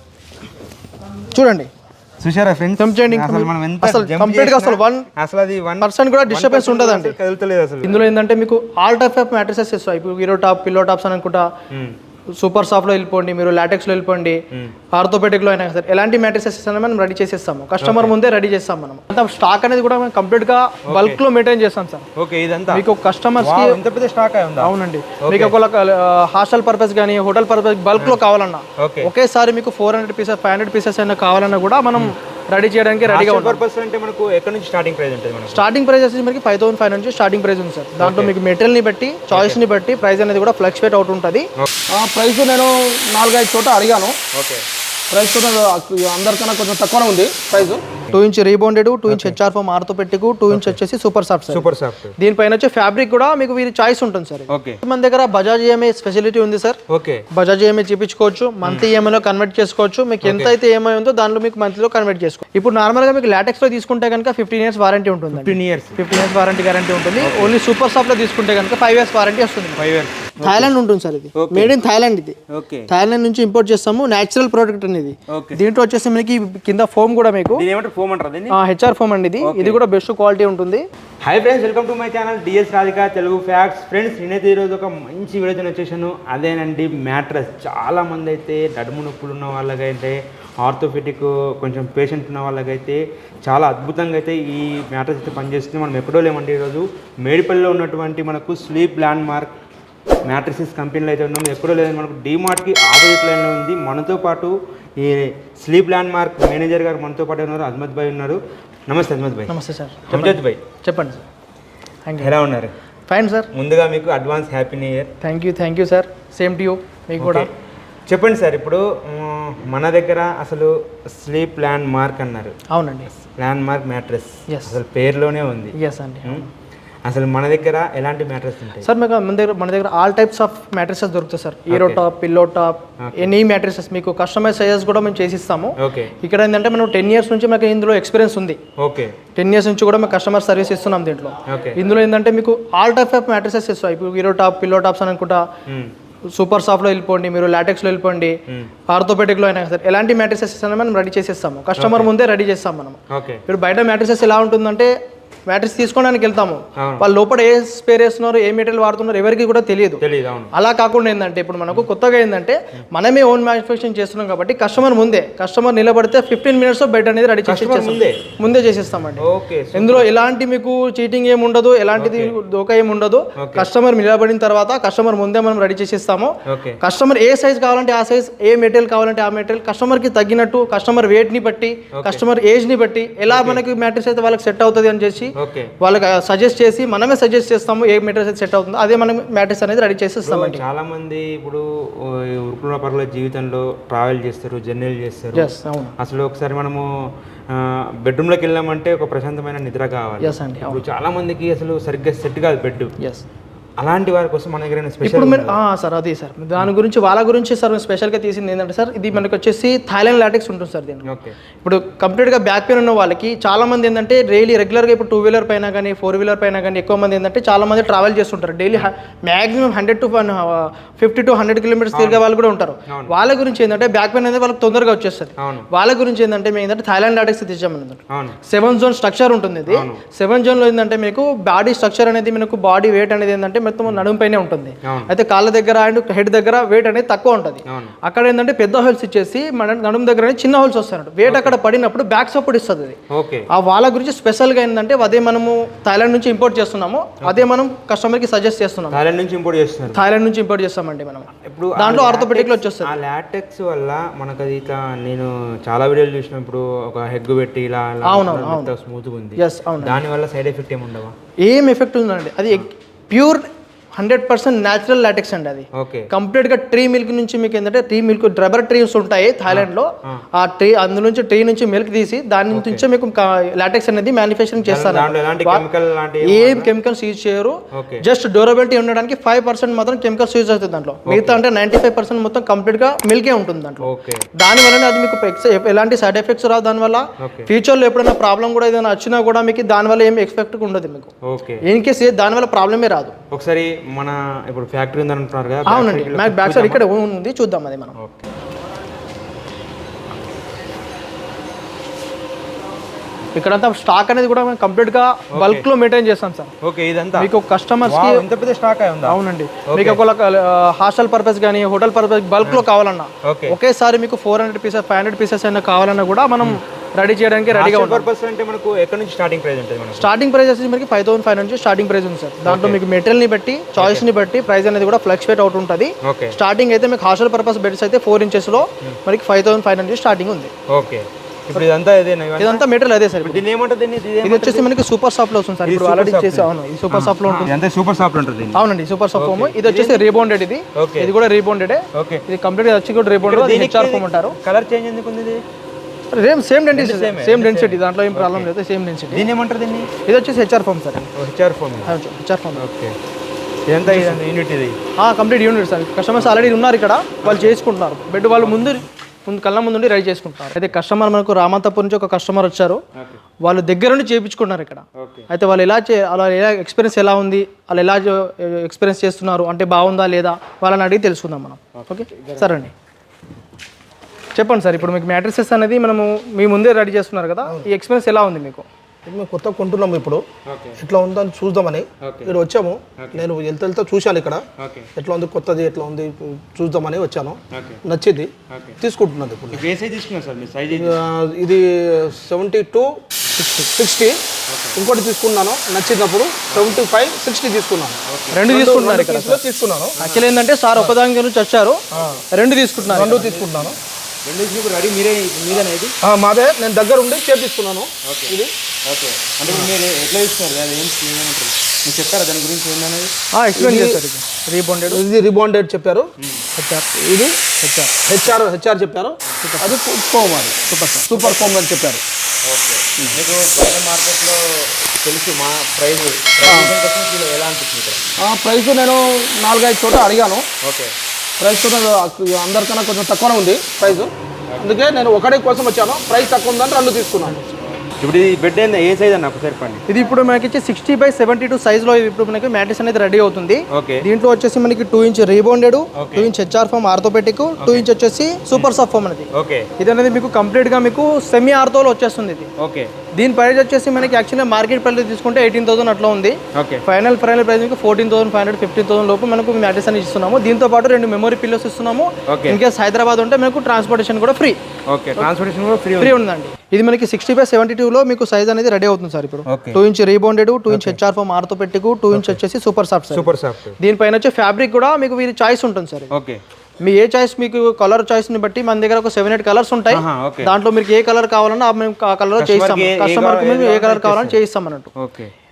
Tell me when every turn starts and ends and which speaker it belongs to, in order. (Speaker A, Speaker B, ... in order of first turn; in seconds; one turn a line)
Speaker A: 1.3-1.7
Speaker B: 2.2-8.0
Speaker A: 2.8-5.1
Speaker A: 5.8-7.2
Speaker A: 7.8-11.5
Speaker B: 11.7-12.0
Speaker A: 12.4-14.4
Speaker A: 14.9-22.1
Speaker B: 17.8-18.1
Speaker B: 20.9-21.2
Speaker B: 22.2-22.9
Speaker A: 22.7-23.8
Speaker B: 23.4-24.7
Speaker A: 24.6-33.6
Speaker B: 25.2-25.6
Speaker B: 28.8-29.1
Speaker B: 33.0-35.6
Speaker A: 35.5-41.5
Speaker B: 38.0-38.3
Speaker B: 39.3-39.6
Speaker C: 41.9-44.2
Speaker B: 44.3-44.6
Speaker C: 45.1-47.8
Speaker A: 48.1-56.8
Speaker B: 49.1-49.4
Speaker B: 50.5-50.8
Speaker B: 51.5-52.1
Speaker B: 54.5-54.8
Speaker B: 56.9-57.3
Speaker A: 57.3-69.8
Speaker B: 60.2-60.5
Speaker B: 65.3-66.0
Speaker B: 67.2-67.5
Speaker B: 69.8-70.7
Speaker A: 70.4-72.4
Speaker B: 71.3-71.8
Speaker B: 72.5-72.9
Speaker A: 72.9-77.7
Speaker B: 75.3-75.6
Speaker B: 77.5-78.6
Speaker A: 78.5-80.8
Speaker B: 79.4-79.8
Speaker B: 81.2-99.5
Speaker B: 100.2-109.5
Speaker A: 109.5-111.2
Speaker B: 110.1-110.6
Speaker A: 112.1-112.3
Speaker B: 112.2-112.7
Speaker A: 113.1-113.5
Speaker B: 113.5-115.1
Speaker A: 115.2-117.5
Speaker B: 117.2-117.5
Speaker B: 118.1-122.5
Speaker A: 122.7-123.1
Speaker B: 123.4-126.5
Speaker A: 124.5-124.8
Speaker A: 125.8-126.5
Speaker B: 127.0-128.9
Speaker A: 128.8-138.6
Speaker B: 131.7-132.0
Speaker B: 133.0-133.3
Speaker B: 135.8-136.1
Speaker B: 138.8-139.2
Speaker A: 139.4-145.4
Speaker B: 141.5-141.8
Speaker B: 145.7-145.9
Speaker A: 146.3-148.4
Speaker A: 148.9-154.9
Speaker B: 151.8-152.1
Speaker B: 153.1-153.4
Speaker A: 155.5-190.7
Speaker B: 156.8-157.1
Speaker B: 160.0-160.5
Speaker B: 167.4-168.2
Speaker B: 169.2-170.1
Speaker B: 172.0-172.3
Speaker B: 173.4-173.7
Speaker B: 176.5-176.8
Speaker B: 181.9-182.2
Speaker B: 183.3-183.6
Speaker B: 185.4-185.7
Speaker B: 190.2-196.8
Speaker A: 195.3-195.9
Speaker B: 197.5-202.9
Speaker A: 200.2-200.8
Speaker B: 203.8-205.6
Speaker A: 205.0-211.1
Speaker B: 211.1-211.4
Speaker A: 211.6-243.0
Speaker B: 221.9-222.2
Speaker B: 225.4-225.7
Speaker B: 228.1-228.4
Speaker B: 229.7-230.0
Speaker B: 234.8-235.1
Speaker B: 241.2-241.6
Speaker B: 243.1-243.5
Speaker A: 243.5-249.0
Speaker B: 248.9-250.0
Speaker A: 249.9-252.9
Speaker B: 251.4-261.1
Speaker A: 258.0-258.7
Speaker A: 259.4-260.0
Speaker A: 261.5-263.4
Speaker A: 264.0-275.6
Speaker B: 265.8-266.1
Speaker B: 269.5-270.2
Speaker B: 272.5-272.8
Speaker B: 274.7-276.7
Speaker A: 276.2-291.1
Speaker B: 277.7-278.1
Speaker B: 281.1-281.4
Speaker B: 283.8-284.2
Speaker B: 287.2-287.5
Speaker B: 291.3-291.6
Speaker A: 291.6-293.1
Speaker B: 293.3-296.8
Speaker A: 295.7-297.9
Speaker A: 303.4-306.5
Speaker B: 305.3-305.6
Speaker B: 306.6-307.3
Speaker A: 307.1-308.2
Speaker B: 307.9-310.0
Speaker A: 309.1-318.1
Speaker B: 313.2-313.6
Speaker B: 317.5-320.1
Speaker A: 320.0-330.5
Speaker B: 322.4-322.8
Speaker B: 323.8-324.1
Speaker B: 326.0-326.4
Speaker B: 330.7-332.6
Speaker A: 332.4-333.4
Speaker B: 333.2-334.7
Speaker A: 334.2-337.5
Speaker B: 335.7-338.6
Speaker A: 338.5-344.4
Speaker B: 339.2-340.1
Speaker B: 340.8-341.1
Speaker B: 341.9-342.2
Speaker B: 343.2-345.4
Speaker A: 346.1-349.3
Speaker B: 346.7-348.5
Speaker B: 349.1-349.9
Speaker A: 350.1-351.0
Speaker B: 351.0-351.9
Speaker A: 351.9-352.6
Speaker B: 352.6-353.0
Speaker B: 353.7-354.8
Speaker A: 353.9-354.2
Speaker A: 355.0-362.8
Speaker B: 356.2-356.5
Speaker B: 357.2-357.6
Speaker B: 358.4-358.8
Speaker A: 363.4-372.7
Speaker B: 365.0-365.3
Speaker B: 371.8-372.5
Speaker A: 374.4-378.7
Speaker C: 379.1-380.2
Speaker B: 380.5-380.8
Speaker C: 380.8-389.7
Speaker B: 382.0-382.4
Speaker B: 383.0-383.3
Speaker B: 384.6-384.9
Speaker B: 387.5-387.8
Speaker B: 388.5-388.8
Speaker B: 389.5-391.0
Speaker C: 390.7-392.9
Speaker A: 393.4-393.7
Speaker C: 393.8-394.2
Speaker B: 394.5-394.8
Speaker C: 394.8-400.0
Speaker B: 396.5-396.8
Speaker B: 398.1-398.4
Speaker A: 398.3-399.4
Speaker B: 400.0-400.9
Speaker A: 400.0-401.8
Speaker C: 401.9-402.2
Speaker A: 402.3-403.4
Speaker C: 402.8-403.8
Speaker B: 403.4-403.7
Speaker B: 404.2-405.9
Speaker C: 406.0-408.5
Speaker B: 408.0-413.1
Speaker A: 413.3-415.0
Speaker C: 413.6-414.0
Speaker C: 414.9-416.1
Speaker B: 416.2-416.4
Speaker A: 416.6-416.9
Speaker C: 416.9-417.4
Speaker A: 417.6-417.9
Speaker C: 418.1-420.6
Speaker A: 419.4-419.8
Speaker A: 420.7-421.5
Speaker C: 421.1-422.0
Speaker B: 422.4-428.0
Speaker C: 426.4-426.7
Speaker C: 428.2-430.5
Speaker B: 430.6-430.9
Speaker C: 431.4-437.4
Speaker B: 438.0-439.8
Speaker A: 439.9-452.5
Speaker B: 443.7-444.0
Speaker B: 445.9-446.3
Speaker B: 447.6-447.9
Speaker B: 449.3-449.7
Speaker B: 452.6-452.9
Speaker A: 453.2-464.6
Speaker B: 456.6-456.8
Speaker B: 462.3-462.6
Speaker B: 464.9-466.2
Speaker A: 466.0-476.1
Speaker B: 469.5-469.8
Speaker B: 470.7-471.0
Speaker B: 472.1-472.4
Speaker B: 473.1-473.8
Speaker B: 476.1-476.4
Speaker A: 476.8-484.9
Speaker B: 479.9-480.5
Speaker B: 482.4-484.4
Speaker B: 485.0-485.3